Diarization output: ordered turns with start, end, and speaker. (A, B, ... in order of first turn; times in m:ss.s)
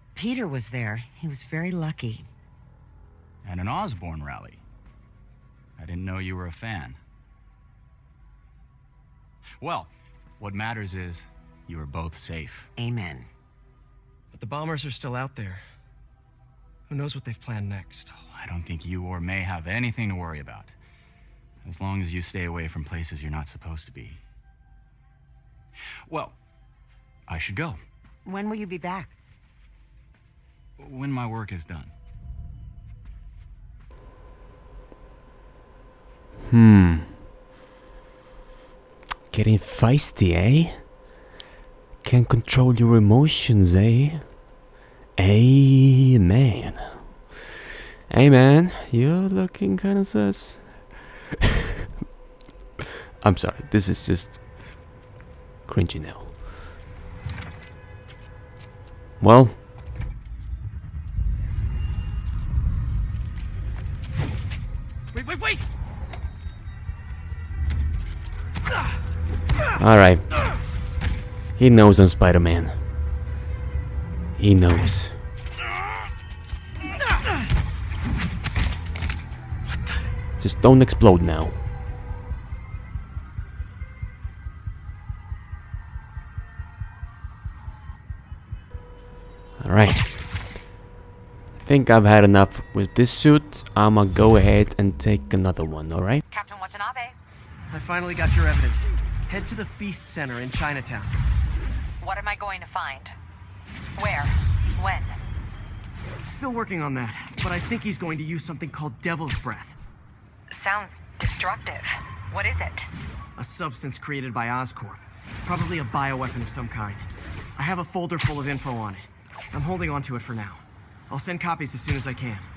0:00.2-0:02.3 A
0:03.4-0:04.6 B
0:05.8-0:07.0 B
0:09.6-0:12.7 B
0:12.8-0:13.3 A
0:14.3-0:15.6 C
0:16.9-0:18.2 C
0:18.3-0:20.7 B
0:21.6-0:24.2 B
0:26.1-0:26.4 B
0:27.3-0:27.8 B
0:28.2-0:29.2 A
0:30.8-0:31.9 B
0:36.4-0:37.2 D
0:39.3-0:40.9 D
0:42.0-0:44.4 D
0:45.2-0:47.4 D
0:48.1-0:51.2 D
0:53.2-0:54.9 D
0:55.7-0:56.5 D
0:59.2-0:59.6 D
1:05.1-1:05.6 C
1:09.8-1:10.3 D
1:11.6-1:12.9 D
1:14.4-1:15.2 D
1:19.7-1:20.0 C
1:20.4-1:21.7 D
1:29.6-1:30.5 D
1:31.6-1:36.2 D
1:36.3-1:37.2 E
1:37.7-1:41.2 C
1:42.0-1:43.2 E
1:44.0-1:45.2 E
1:46.2-1:49.8 C
1:50.5-1:52.9 E
1:53.4-2:02.5 C